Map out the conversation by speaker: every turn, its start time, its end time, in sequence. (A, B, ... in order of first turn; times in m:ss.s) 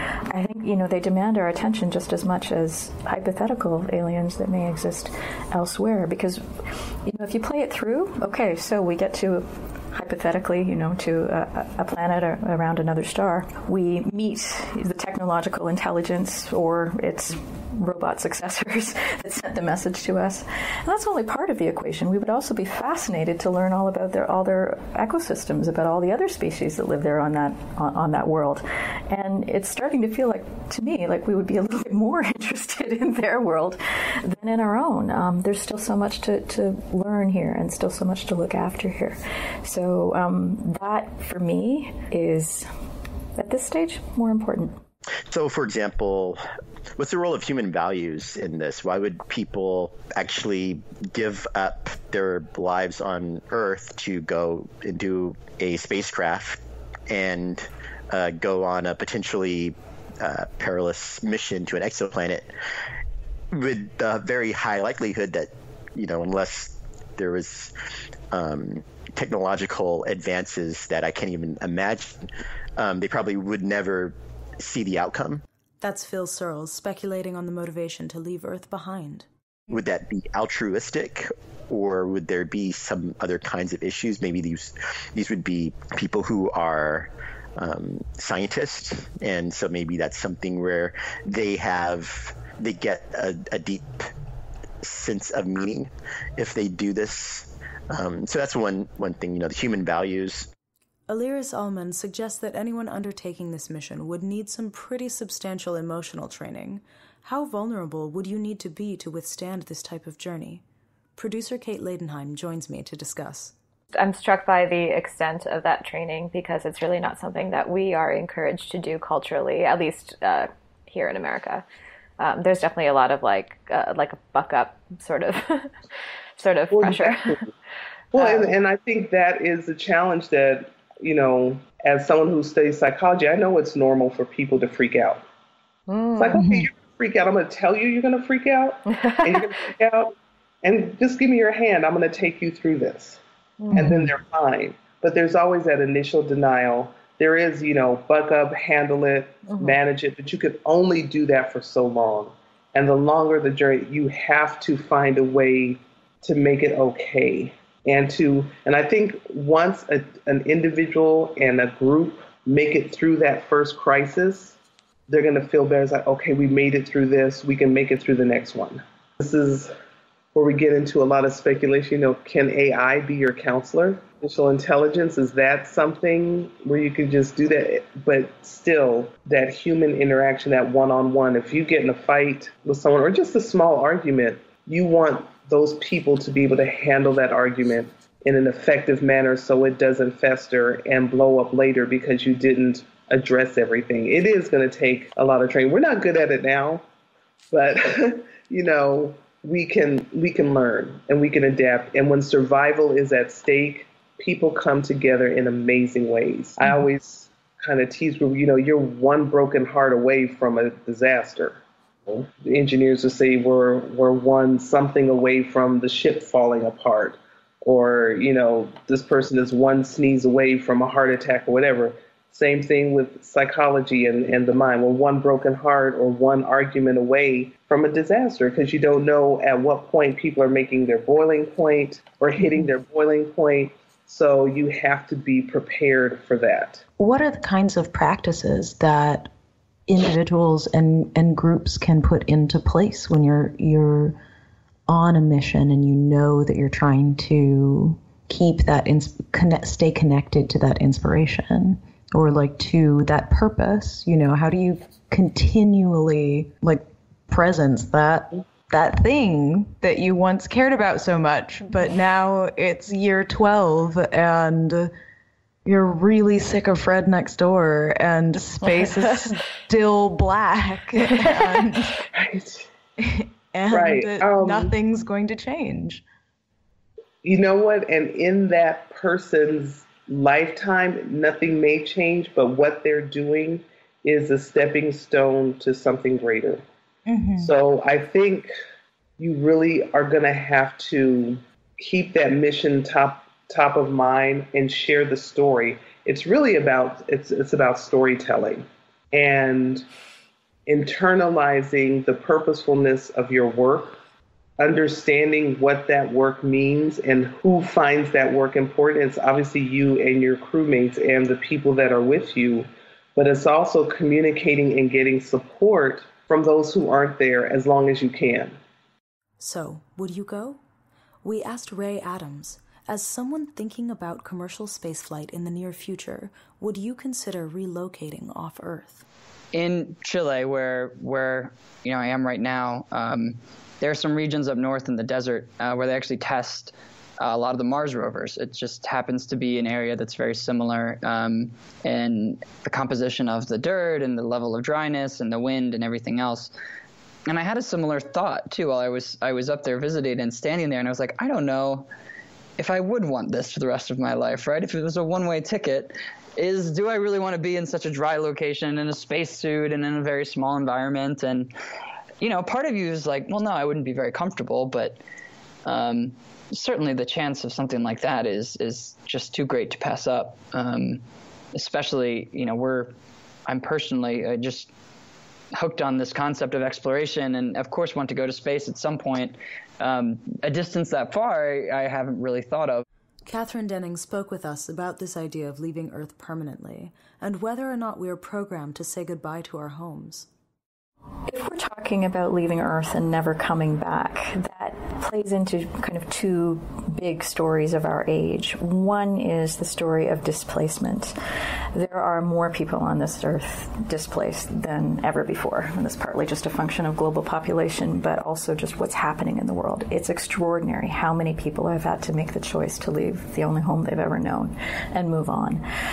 0:00.3-0:06.4 A
0:07.0-0:42.7 A
0:43.4-0:44.8 A
0:45.3-0:46.4 B
0:47.0-1:02.5 B
1:03.5-1:07.7 B
1:08.3-1:12.2 B
1:12.8-1:15.4 B
1:15.8-1:19.3 C
1:19.7-1:34.1 B
1:34.8-1:40.5 B
1:41.1-1:50.6 C
1:51.2-1:53.5 C
1:53.9-2:01.6 D
2:02.2-2:07.4 D
2:06.7-2:07.4 E
2:08.1-2:15.2 E
2:08.2-2:08.5 D
2:15.9-2:16.4 D
2:16.2-2:20.1 E
2:18.9-2:19.6 D
2:20.6-2:23.2 E
2:23.6-2:23.9 D
2:23.7-2:44.6 E
2:23.8-2:24.0 F
2:29.5-2:29.8 D
2:45.1-2:49.7 E
2:50.3-3:16.8 E
3:17.5-3:56.8 E
3:57.0-3:59.3 F
3:59.9-4:04.1 F
4:04.9-4:24.9 F
4:25.6-4:31.9 F
4:32.1-4:32.7 E
4:33.1-4:36.0 F
4:33.7-4:34.7 E
4:37.2-4:46.6 E
4:47.1-4:47.5 F
4:47.4-4:48.5 E
4:49.2-4:59.8 E
5:00.7-5:04.0 E
5:04.6-5:18.6 E
5:19.4-5:20.6 C
5:21.2-5:29.1 C
5:29.5-5:46.5 G
5:47.3-5:51.9 G
5:52.6-6:01.5 G
6:02.2-6:05.0 G
6:05.6-6:11.0 G
6:11.5-6:12.9 G
6:13.5-6:14.7 G
6:15.5-6:22.8 G
6:23.2-6:30.3 C
6:31.3-6:41.1 A
6:41.7-6:55.6 A